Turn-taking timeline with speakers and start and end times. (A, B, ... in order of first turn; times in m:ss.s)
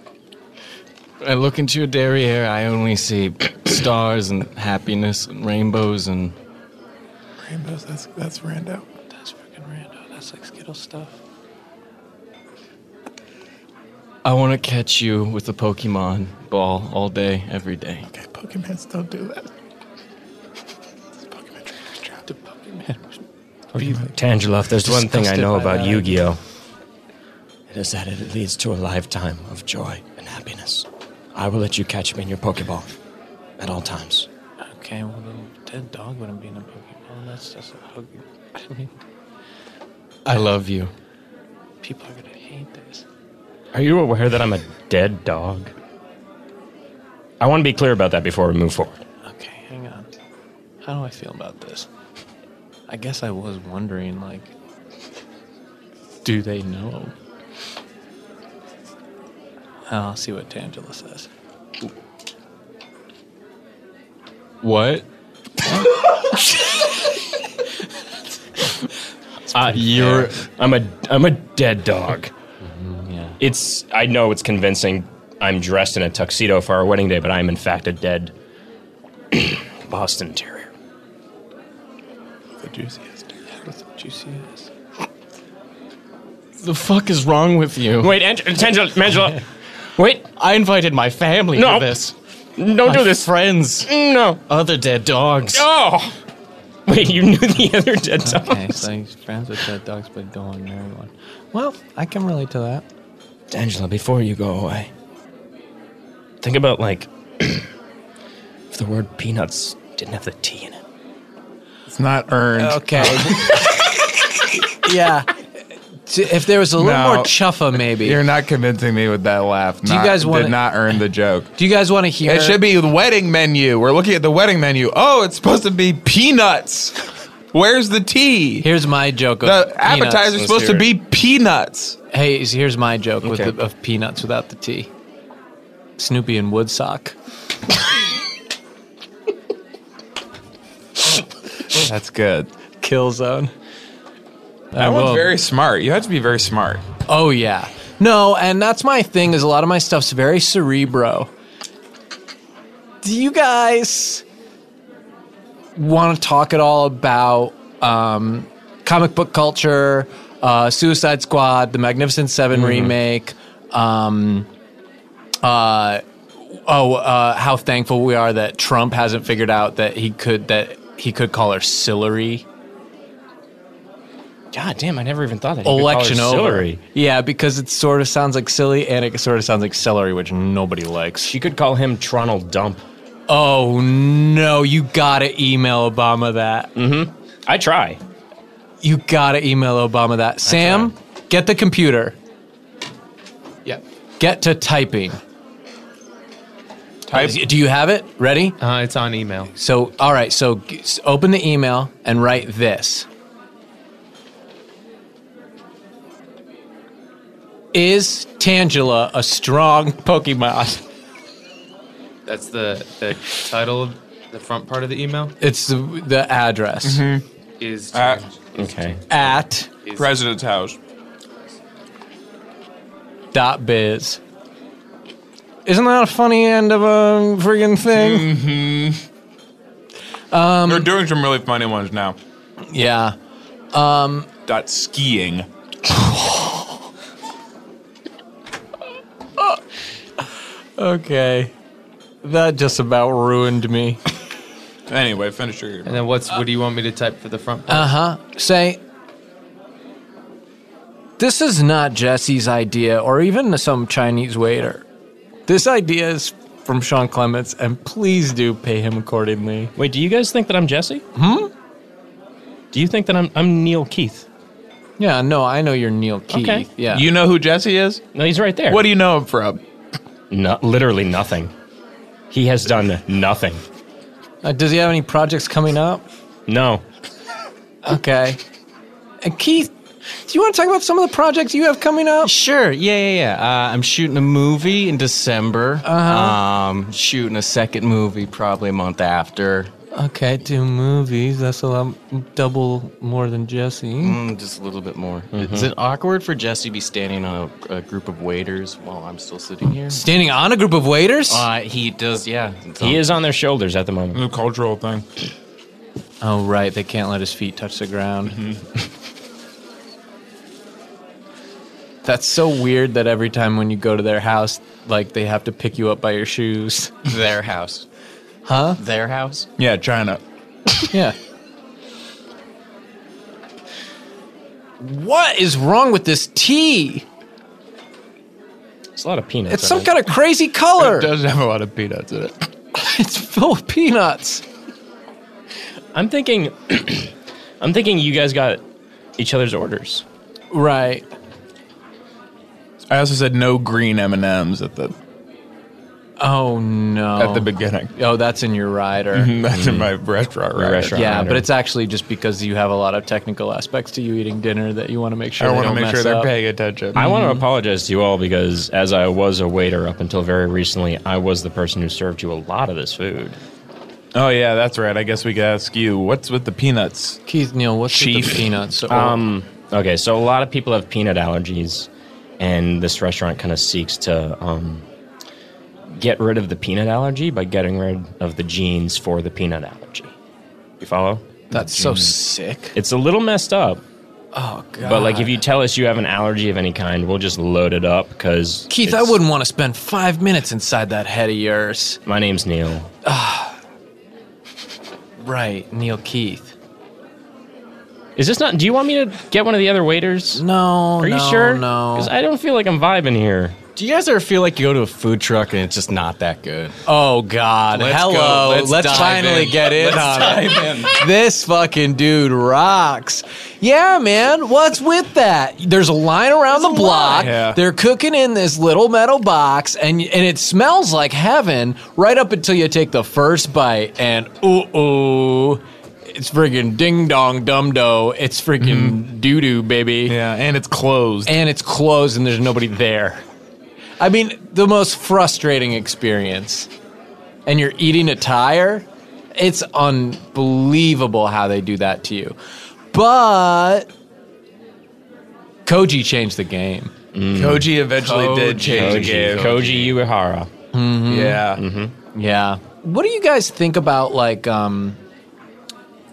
0:01.2-0:06.3 A
0:07.4-0:08.9 B
0:09.2-0:11.1 C
0:14.2-0:18.1 A
0:18.1-0:19.5 B
0:21.3-0:22.2 B
0:22.3-0:23.2 C
0:23.8-0:24.0 B
0:24.1-0:26.4 D
0:24.8-0:26.2 C
0:27.7-0:32.9 D
0:33.6-0:34.3 D
0:34.7-0:38.9 C
0:40.2-0:40.9 A
0:41.8-0:43.0 C
0:43.7-0:45.7 D
0:47.4-0:49.0 D
0:49.3-0:50.1 C
0:50.8-0:51.9 C
0:52.9-0:54.5 C
0:56.2-0:57.1 C
0:59.9-1:01.3 C
1:04.6-1:05.0 A
1:09.5-1:12.3 D
1:09.7-1:10.4 A
1:13.4-1:18.3 D
1:19.3-1:20.7 D
1:22.6-1:23.6 B
1:23.9-1:24.6 C
1:26.6-1:28.1 A
1:28.0-1:29.4 D
1:30.0-1:30.3 D
1:30.4-1:32.1 A
1:31.5-1:32.0 D
1:32.6-1:34.4 D
1:32.9-1:33.9 A
1:34.5-1:35.7 A
1:35.5-1:36.1 D
1:36.9-1:38.8 D
1:38.2-1:42.8 C
1:43.5-1:44.9 D
1:46.4-1:47.7 D
1:48.7-1:50.8 D
1:51.9-1:53.6 B
1:52.6-1:53.8 C
1:54.8-1:55.3 C
1:56.0-1:58.2 C
1:56.8-2:01.5 B
1:59.8-2:00.7 C
2:01.6-2:02.6 C
2:02.2-2:08.7 B
2:08.6-2:10.4 C
2:09.4-2:12.0 B
2:10.4-2:10.9 D
2:12.1-2:14.9 C
2:13.2-2:13.5 D
2:16.0-2:17.1 C
2:21.7-2:22.5 B
2:22.8-2:23.5 C
2:24.7-2:25.3 C
2:24.8-2:26.9 B
2:27.1-2:31.3 C
2:33.0-2:34.2 C
2:35.7-2:44.5 C
2:42.5-2:43.0 D
2:45.4-2:52.4 C
2:54.5-2:56.8 D
2:55.6-3:01.3 C
3:01.3-3:02.8 D
3:03.3-3:06.7 C
3:06.8-3:08.0 D
3:08.8-3:12.2 C
3:10.4-3:10.9 D
3:14.2-3:15.2 C
3:17.1-3:17.4 B
3:17.1-3:18.6 C
3:18.6-3:19.5 E
3:19.6-3:23.1 C
3:27.7-3:30.8 C
3:32.3-3:35.3 E
3:35.4-3:37.0 C
3:36.8-3:37.2 B
3:37.6-3:38.6 E
3:37.9-3:38.2 B
3:38.5-3:39.0 D
3:39.1-3:39.7 C
3:39.8-3:40.1 E
3:40.0-3:40.8 B
3:43.3-3:44.2 C
3:45.7-3:48.3 C
3:47.9-3:49.0 B
3:50.3-3:50.9 C
3:50.7-3:52.2 B
3:52.7-3:53.2 C
3:53.7-3:54.3 C
3:54.4-3:55.5 B
3:56.1-3:56.6 C
4:00.8-4:01.5 C
4:02.2-4:04.0 C
4:04.9-4:06.0 B
4:05.9-4:07.9 E
4:07.7-4:08.8 C
4:11.2-4:14.8 C
4:15.5-4:19.7 C
4:19.8-4:21.0 D
4:21.2-4:21.5 C
4:22.7-4:24.2 D
4:25.0-4:27.1 C
4:26.3-4:26.7 D
4:26.9-4:28.0 B
4:28.1-4:28.8 D
4:28.7-4:29.6 B
4:30.3-4:31.5 D
4:32.3-4:33.6 D
4:34.4-4:36.0 C
4:36.5-4:36.8 D
4:37.8-4:38.4 C
4:39.2-4:39.7 C
4:40.3-4:42.3 C
4:42.2-4:49.7 A
4:45.8-4:46.4 C
4:49.9-4:54.2 C
4:54.0-5:00.0 A
4:55.3-4:55.7 D
4:59.9-5:01.4 C
5:01.3-5:03.2 A
5:02.8-5:04.2 D
5:04.1-5:05.0 B
5:06.2-5:08.4 C
5:12.0-5:16.9 C
5:17.0-5:17.9 A
5:18.4-5:18.8 C
5:18.8-5:19.5 A
5:19.6-5:20.2 B
5:24.8-5:27.0 C
5:29.0-5:30.0 D
5:29.5-5:31.1 C
5:30.8-5:32.4 B
5:32.8-5:34.4 C
5:35.9-5:38.6 D
5:39.2-5:40.0 D
5:40.5-5:41.1 C
5:42.9-5:45.0 B
5:46.2-5:49.4 C
5:47.2-5:47.9 B
5:49.1-5:51.0 B
5:49.5-5:49.9 D
5:50.5-5:51.5 D
5:50.9-5:56.3 C
5:55.4-5:57.0 B
5:56.9-6:03.4 D
5:57.0-5:57.4 C
6:04.1-6:07.2 B
6:07.3-6:09.2 C
6:07.9-6:08.5 B
6:08.9-6:14.9 D
6:15.9-6:20.1 D
6:20.8-6:21.2 D
6:21.5-6:22.8 C
6:22.7-6:23.8 D
6:24.3-6:25.4 C
6:24.8-6:29.2 D
6:28.7-6:32.0 C
6:32.0-6:32.9 D
6:33.0-6:33.6 C
6:35.2-6:36.5 C
6:38.2-6:40.4 D
6:40.3-6:42.1 C
6:41.0-6:43.6 D
6:43.8-6:46.8 A
6:46.9-7:10.2 C
6:47.7-6:51.0 A
6:48.8-6:50.8 B
6:56.5-6:57.3 A
6:57.2-6:57.6 B
7:08.6-7:09.0 B
7:10.1-7:11.3 B
7:11.3-7:13.2 C
7:14.0-7:16.7 C
7:17.4-7:22.4 C
7:22.9-7:23.9 C
7:25.7-7:26.9 C
7:27.1-7:27.8 D
7:27.3-7:29.8 B
7:28.0-7:29.9 A
7:28.6-7:30.5 D
7:30.7-7:31.5 C
7:31.0-7:31.6 B
7:31.6-7:32.0 D
7:32.1-7:35.0 C